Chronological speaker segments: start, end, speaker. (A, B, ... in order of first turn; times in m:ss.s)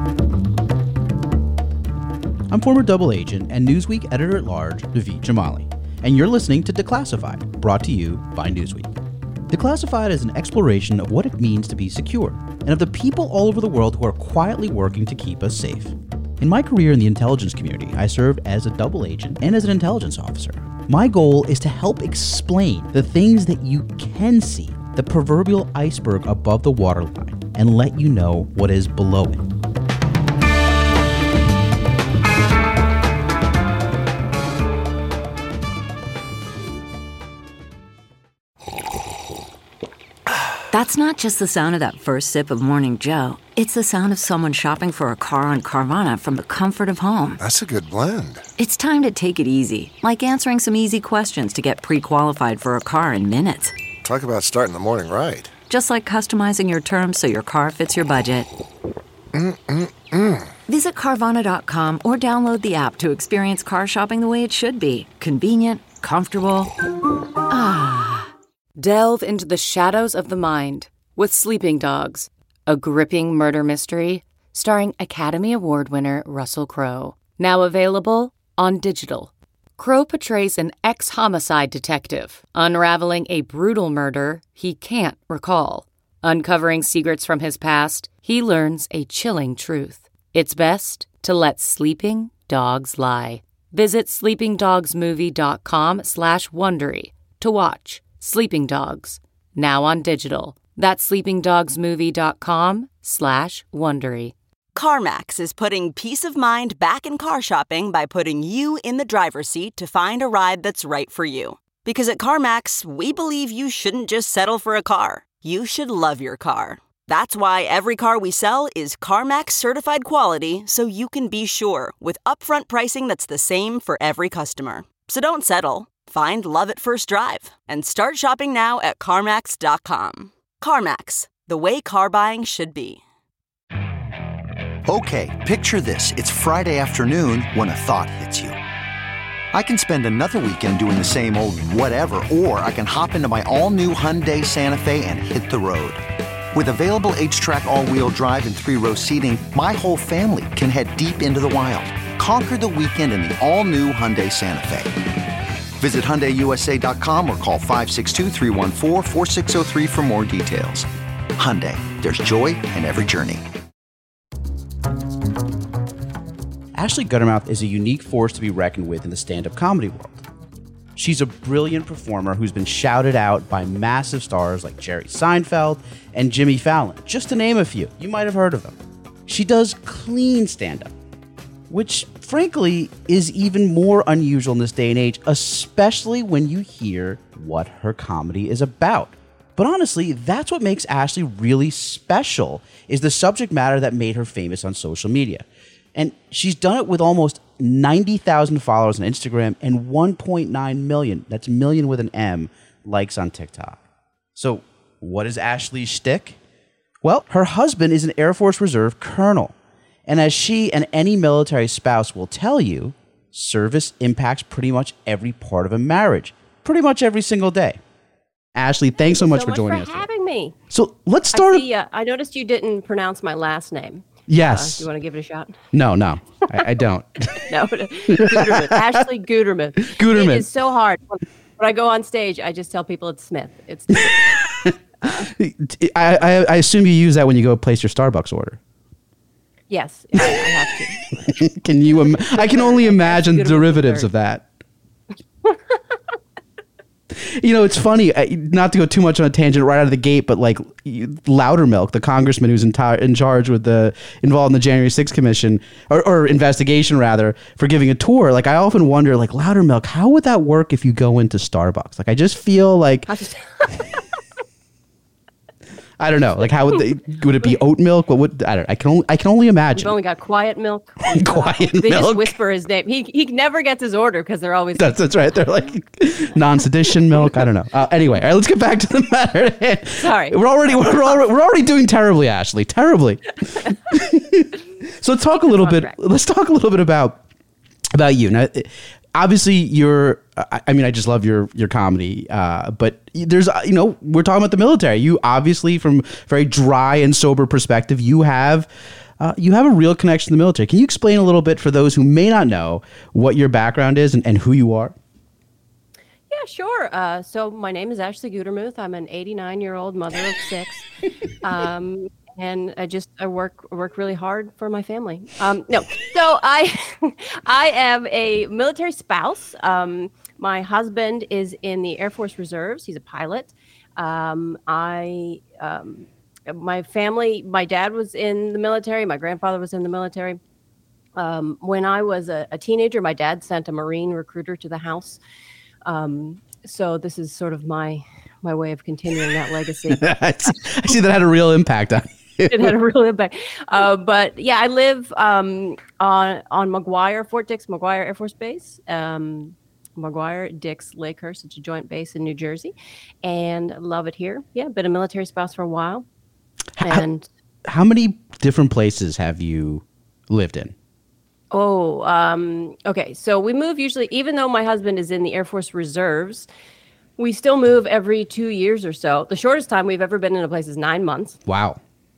0:02.5-0:08.9 A
0:09.5-0:29.5 A
0:40.7-0:47.4 B
0:47.4-0:48.4 C
0:48.6-0:53.8 B
0:54.0-0:55.5 C
0:55.7-0:58.5 B
0:59.3-1:00.5 C
1:00.7-1:06.7 B
1:07.5-1:44.3 D
1:44.7-2:13.0 E
2:14.9-2:18.6 F
2:19.5-2:26.0 F
2:26.5-2:34.9 F
2:35.8-2:43.4 F
2:46.7-2:50.2 A
2:51.0-3:00.9 A
3:01.7-3:23.8 A
3:24.4-3:26.4 A
3:27.0-3:29.5 A
3:30.1-3:37.8 A
3:38.5-3:40.0 A
3:39.0-3:40.6 G
3:40.7-3:41.7 A
3:41.3-3:45.6 G
3:44.3-3:44.9 A
3:45.7-3:47.4 A
3:47.5-3:54.3 G
3:48.1-3:48.9 A
3:49.8-3:50.4 A
3:54.4-3:58.6 A
3:55.0-3:55.3 G
3:59.7-4:01.1 G
4:01.1-4:04.5 A
4:01.9-4:04.1 G
4:07.1-4:23.1 A
4:23.1-4:24.0 G
4:26.0-4:29.9 A
4:29.7-4:35.0 G
4:31.1-4:32.3 A
4:34.8-4:47.2 A
4:40.0-4:41.2 G
4:45.4-4:45.9 G
4:47.9-5:04.9 A
5:06.3-5:10.9 G
5:11.4-5:30.4 G
5:31.2-5:35.2 G
5:35.8-5:40.6 G
5:39.9-5:42.7 A
5:42.4-5:56.0 G
5:56.8-5:57.0 A
5:56.8-5:57.3 G
5:57.6-6:00.7 A
6:01.5-6:06.5 G
6:07.2-6:11.4 G
6:11.4-6:11.8 A